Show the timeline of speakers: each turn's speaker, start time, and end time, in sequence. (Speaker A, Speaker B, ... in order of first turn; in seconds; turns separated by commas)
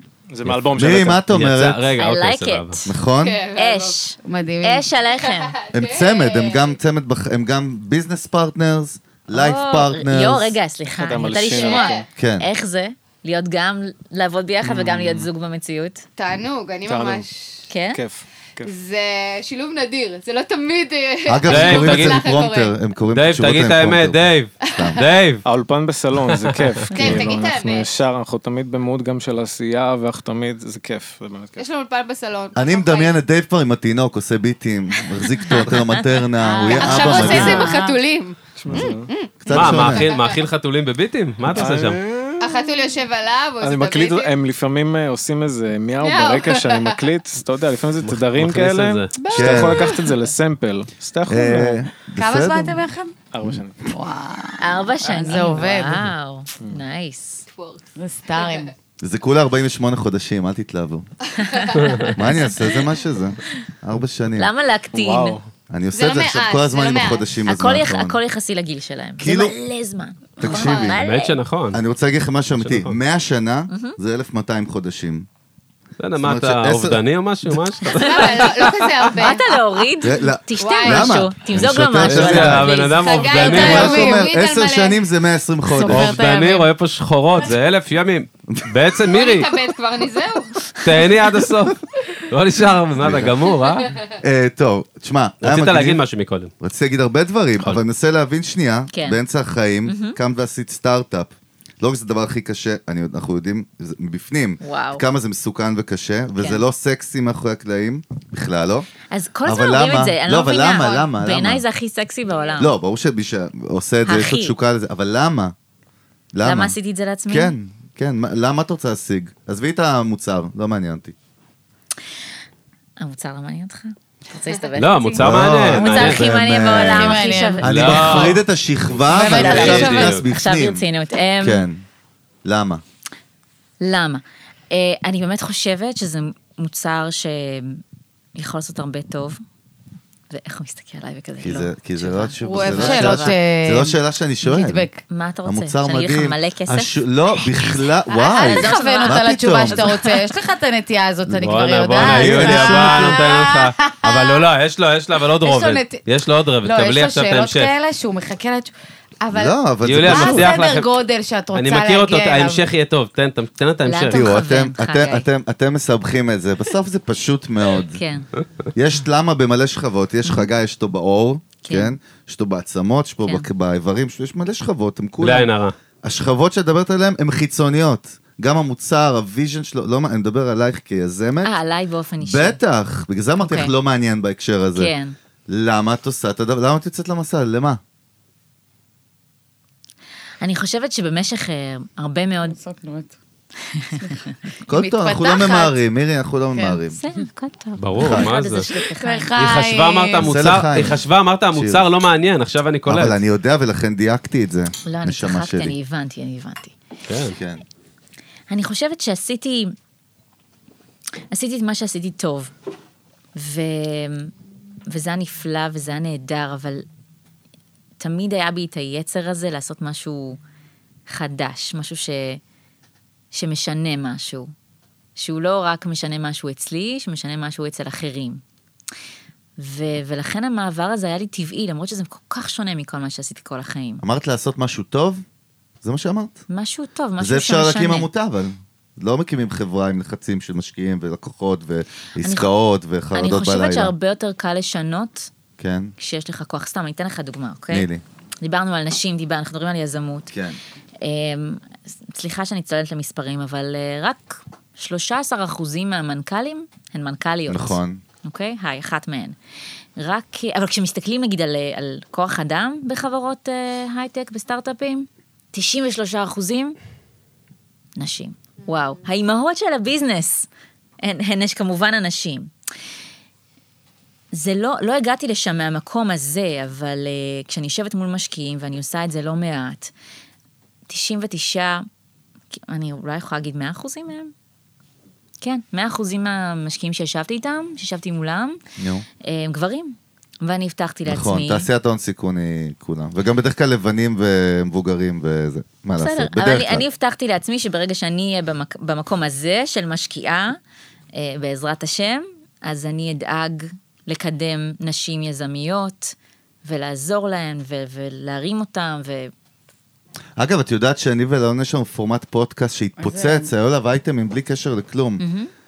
Speaker A: 0.3-1.2, Speaker B: 0.5-1.8, Speaker C: 1.3-2.8, Speaker D: 2.0-2.9, Speaker B: 2.9-3.4, Speaker E: 3.1-4.0, Speaker D: 3.5-5.5, Speaker F: 4.2-4.9, Speaker E: 5.1-6.8, Speaker B: 5.7-10.6, Speaker D: 9.3-16.1, Speaker A: 10.9-11.9, Speaker E: 11.4-12.1, Speaker B: 12.2-12.5, Speaker A: 14.6-15.3, Speaker E: 16.2-17.6, Speaker A: 16.8-17.2, Speaker D: 17.7-18.0, Speaker A: 17.9-18.7, Speaker E: 18.6-22.8, Speaker B: 21.3-25.0, Speaker C: 21.5-22.2, Speaker C: 23.1-25.4, Speaker E: 24.6-24.9, Speaker A: 25.4-31.6, Speaker E: 26.9-27.9, Speaker E: 31.6-33.2, Speaker B: 32.5-37.7, Speaker F: 36.4-38.0, Speaker E: 36.6-40.4, Speaker A: 38.5-39.1, Speaker B: 39.4-40.1, Speaker C: 39.5-42.0, Speaker A: 41.5-42.8, Speaker E: 42.4-44.3, Speaker A: 43.6-51.9, Speaker E: 46.0-47.1, Speaker C: 48.0-49.1, Speaker E: 49.1-50.2, Speaker B: 49.3-49.9, Speaker B: 51.3-52.9, Speaker F: 52.2-53.1, Speaker A: 53.3-53.8, Speaker F: 53.9-56.0, Speaker D: 54.6-57.4, Speaker E: 57.5-58.7, Speaker F: 58.0-58.7, Speaker B: 59.0-61.0, Speaker E: 61.4-62.1, Speaker D: 61.5-61.8, Speaker C: 61.8-62.1, Speaker B: 62.1-64.5, Speaker D: 64.3-65.4, Speaker A: 64.9-65.5, Speaker B: 65.7-68.2, Speaker E: 65.9-67.3, Speaker D: 67.5-71.4, Speaker B: 69.2-69.5, Speaker B: 70.4-71.0, Speaker C: 71.0-71.8, Speaker B: 71.7-75.2, Speaker C: 72.6-73.0, Speaker D: 73.7-74.0, Speaker C: 76.0-79.2, Speaker B: 76.2-77.0, Speaker E: 77.9-79.8, Speaker D: 79.2-83.7, Speaker B: 80.0-82.7, Speaker E: 80.6-81.2, Speaker C: 82.0-84.1, Speaker E: 82.6-85.0, Speaker B: 83.5-86.2, Speaker F: 83.6-84.3, Speaker F: 85.7-86.7, Speaker C: 85.8-89.6, Speaker E: 89.1-90.6, Speaker C: 90.8-91.8, Speaker C: 92.3-93.9, Speaker B: 93.0-93.4, Speaker E: 93.8-94.2, Speaker B: 94.2-96.0, Speaker C: 95.4-96.5, Speaker B: 96.6-108.8, Speaker D: 98.9-99.2, Speaker D: 99.8-100.2, Speaker D: 104.6-105.0, Speaker D: 106.4-106.6, Speaker D: 109.1-112.7, Speaker B: 109.4-111.6, Speaker E: 112.3-112.7, Speaker B: 112.6-115.5, Speaker D: 114.0-114.5, Speaker B: 116.3-116.8, Speaker D: 116.4-117.5, Speaker B: 117.3-121.1, Speaker D: 123.0-128.3, Speaker C: 124.8-126.2, Speaker B: 125.2-130.8, Speaker F: 126.7-128.0, Speaker C: 127.6-128.4, Speaker F: 129.1-130.1, Speaker D: 129.1-131.7, Speaker C: 129.2-130.2, Speaker B: 131.4-131.8, Speaker B: 132.4-132.8, Speaker D: 133.8-137.8, Speaker D: 138.3-139.4, Speaker D: 140.3-143.4, Speaker B: 141.4-144.9, Speaker F: 142.4-145.0, Speaker D: 145.1-147.8, Speaker B: 145.4-149.9, Speaker F: 148.1-154.4, Speaker D: 148.4-150.2, Speaker C: 151.4-157.7, Speaker B: 152.0-153.2, Speaker F: 155.4-156.0, Speaker F: 156.6-162.6, Speaker B: 159.3-160.5, Speaker C: 159.8-160.9, Speaker C: 161.5-164.2, Speaker D: 163.8-165.3, Speaker B: 164.1-168.0, Speaker D: 167.9-168.3, Speaker B: 168.7-175.5, Speaker D: 171.6-171.9, Speaker C: 175.2-175.7, Speaker B: 176.0-181.5, Speaker D: 181.4-182.6, Speaker B: 182.2-184.9, Speaker D: 183.4-183.7, Speaker D: 184.7-185.1, Speaker B: 185.5-187.8, Speaker D: 190.4-192.6, Speaker F: 192.4-193.1, Speaker D: 193.7-194.3, Speaker B: 194.7-197.0, Speaker F: 194.7-195.8, Speaker F: 196.5-196.8, Speaker D: 196.9-199.3, Speaker C: 197.8-198.7, Speaker B: 198.0-198.3, Speaker F: 198.7-200.2, Speaker C: 199.4-203.2, Speaker B: 200.2-201.8, Speaker B: 202.9-205.7, Speaker D: 204.8-206.7, Speaker C: 207.1-207.4, Speaker B: 207.3-207.6, Speaker D: 208.5-209.7, Speaker D: 211.3-212.5, Speaker D: 213.3-214.3, Speaker D: 214.9-216.8, Speaker D: 218.0-220.4, Speaker D: 221.1-222.4, Speaker D: 223.3-224.5, Speaker D: 225.2-228.4, Speaker D: 229.6-234.0, Speaker B: 234.0-235.2, Speaker B: 235.8-236.4, Speaker D: 236.5-238.1, Speaker B: 237.2-243.9, Speaker D: 242.2-242.5, Speaker D: 243.1-245.3, Speaker B: 245.6-245.9, Speaker D: 246.0-247.9, Speaker B: 247.7-248.0, Speaker D: 248.4-250.3, Speaker B: 250.3-250.6, Speaker D: 251.0-259.4, Speaker B: 257.5-258.0, Speaker D: 260.0-266.8, Speaker D: 268.0-270.5, Speaker D: 271.0-272.5, Speaker D: 274.3-279.9, Speaker D: 280.9-281.8, Speaker D: 282.5-284.3, Speaker D: 285.4-288.6, Speaker B: 288.8-289.1, Speaker D: 289.2-291.7, Speaker B: 291.1-296.8, Speaker D: 296.0-300.6, Speaker D: 301.1-309.3, Speaker B: 310.4-315.2, Speaker F: 313.0-313.5, Speaker D: 315.2-315.5